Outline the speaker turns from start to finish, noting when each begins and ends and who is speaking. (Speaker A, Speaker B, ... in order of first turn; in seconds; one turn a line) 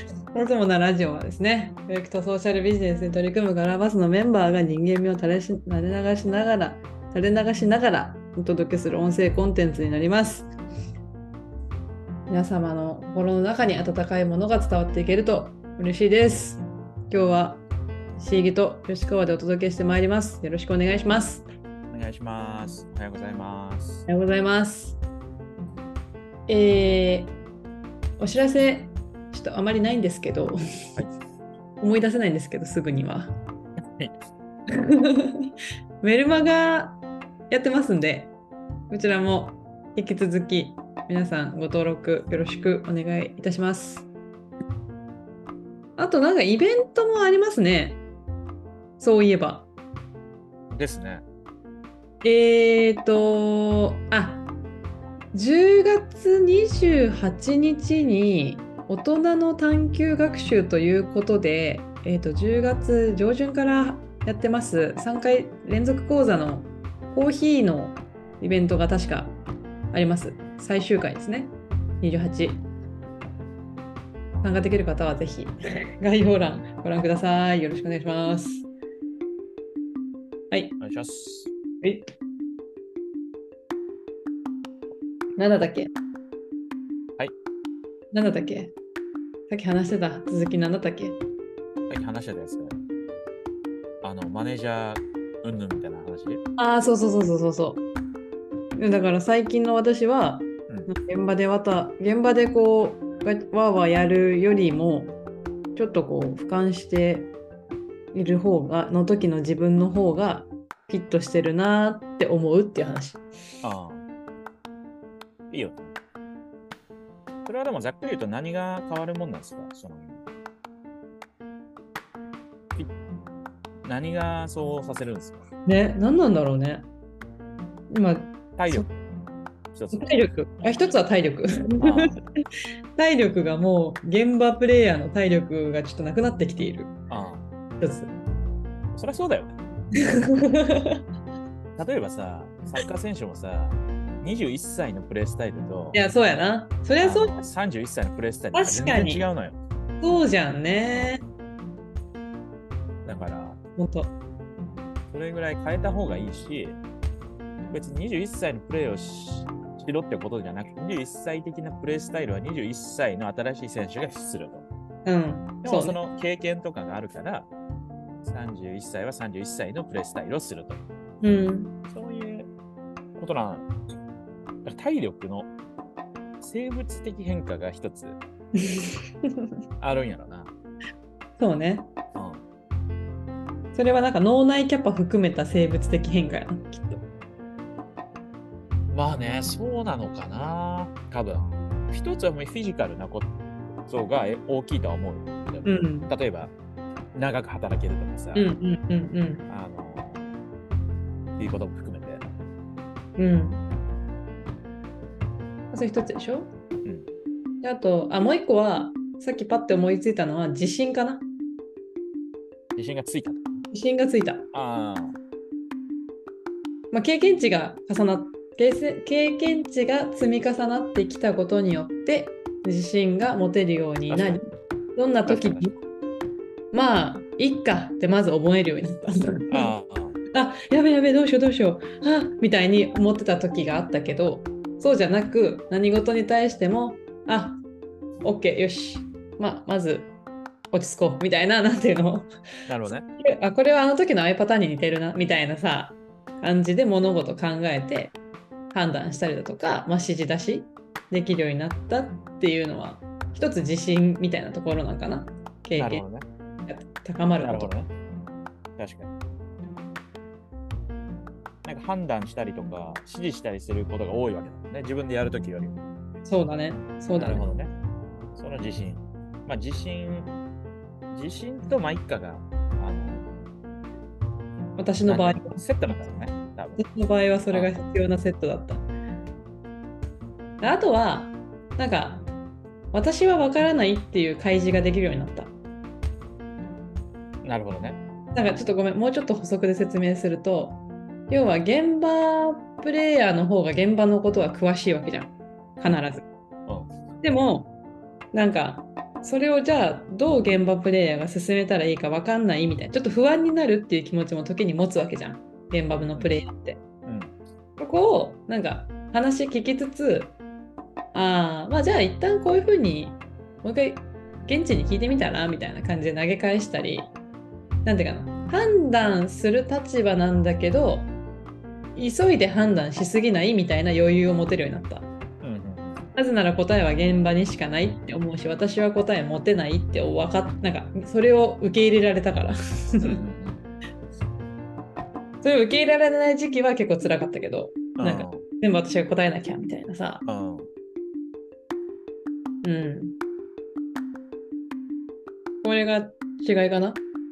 Speaker A: 0.3-10.5
Speaker A: 12.3-17.6
Speaker A: 18.2-21.5
Speaker B: 21.9-24.1
Speaker A: 24.1-25.0
Speaker A: 26.5-27.4
Speaker A: 28.2-30.6
Speaker A: 31.8-33.4
Speaker A: 34.9-35.5
Speaker A: 36.0-38.3
Speaker A: 38.9-44.1
Speaker A: 46.0-48.0
Speaker A: 49.0-49.7
Speaker B: 50.7-51.2
Speaker A: 52.2-54.5
Speaker A: 55.3-69.4
Speaker A: 69.9-72.7
Speaker A: 74.4-78.7
Speaker A: 80.5-80.8
Speaker B: 80.8-81.5
Speaker A: 81.8-82.1
Speaker A: 85.4-85.9
Speaker A: 88.1-88.8
Speaker A: 89.5-91.2
Speaker B: 91.9-92.8
Speaker B: 94.0-96.4
Speaker A: 96.6-97.8
Speaker A: 98.7-105.2
Speaker A: 105.8-107.3
Speaker A: 108.1-113.2
Speaker B: 113.6-114.0
Speaker B: 115.5-115.9
Speaker B: 117.5-120.2
Speaker B: 123.8-125.4
Speaker A: 125.7-126.9
Speaker A: 127.9-128.9
Speaker B: 128.6-128.9
Speaker B: 129.7-130.2
Speaker A: 129.9-132.2
Speaker B: 131.8-132.2
Speaker A: 133.0-136.9
Speaker B: 137.1-137.4
Speaker A: 137.8-138.1
Speaker B: 138.9-139.6
Speaker A: 140.2-141.0
Speaker B: 141.8-146.0
Speaker A: 145.9-147.4
Speaker B: 147.0-149.6
Speaker A: 148.5-149.2
Speaker A: 150.0-151.2
Speaker B: 153.0-153.6
Speaker A: 153.8-154.1
Speaker B: 155.1-156.8
Speaker B: 157.7-164.7
Speaker A: 165.1-166.0
Speaker B: 165.6-167.5
Speaker B: 168.2-170.9
Speaker A: 171.2-171.7
Speaker B: 171.9-172.5
Speaker B: 173.2-173.7
Speaker B: 174.7-175.5
Speaker B: 176.4-178.2
Speaker A: 178.6-179.4
Speaker B: 179.8-180.5
Speaker A: 181.4-181.9
Speaker B: 182.2-182.4
Speaker A: 183.7-187.0
Speaker B: 188.9-193.3
Speaker B: 193.9-196.5
Speaker A: 195.6-196.1
Speaker B: 197.1-198.5
Speaker A: 198.3-199.4
Speaker B: 199.5-200.3
Speaker B: 201.4-202.2
Speaker A: 203.2-203.6
Speaker A: 205.7-206.5
Speaker B: 206.8-207.1
Speaker A: 207.6-211.3
Speaker B: 212.8-213.4
Speaker A: 213.7-214.5
Speaker B: 214.5-215.2
Speaker A: 216.9-224.4
Speaker B: 224.1-224.4
Speaker A: 225.0-225.8
Speaker B: 225.3-225.8
Speaker A: 226.7-229.6
Speaker B: 229.5-230.2
Speaker A: 230.3-237.6
Speaker A: 238.2-240.1
Speaker A: 240.7-242.3
Speaker B: 242.7-243.1
Speaker A: 243.2-248.2
Speaker A: 248.7-256.1
Speaker B: 255.8-256.3
Speaker A: 256.7-257.7
Speaker B: 257.4-257.9
Speaker B: 258.8-259.1
Speaker B: 261.6-265.8
Speaker A: 266.2-267.5
Speaker B: 267.1-267.7
Speaker B: 268.4-270.3
Speaker B: 271.1-273.5
Speaker A: 274.8-275.6
Speaker B: 275.0-276.9
Speaker A: 276.8-278.9
Speaker A: 280.6-282.3
Speaker A: 282.9-285.5
Speaker B: 287.4-288.0
Speaker A: 288.3-296.2
Speaker A: 297.2-297.7
Speaker A: 298.3-306.8
Speaker B: 307.1-307.3
Speaker A: 307.8-310.4
Speaker A: 311.1-317.1
Speaker A: 317.8-321.1
Speaker A: 321.9-325.1
Speaker B: 325.4-326.1
Speaker A: 326.2-333.2
Speaker B: 333.0-333.6
Speaker A: 335.4-340.2
Speaker B: 338.0-338.4
Speaker B: 340.2-340.7
Speaker A: 342.6-343.2
Speaker A: 345.6-347.0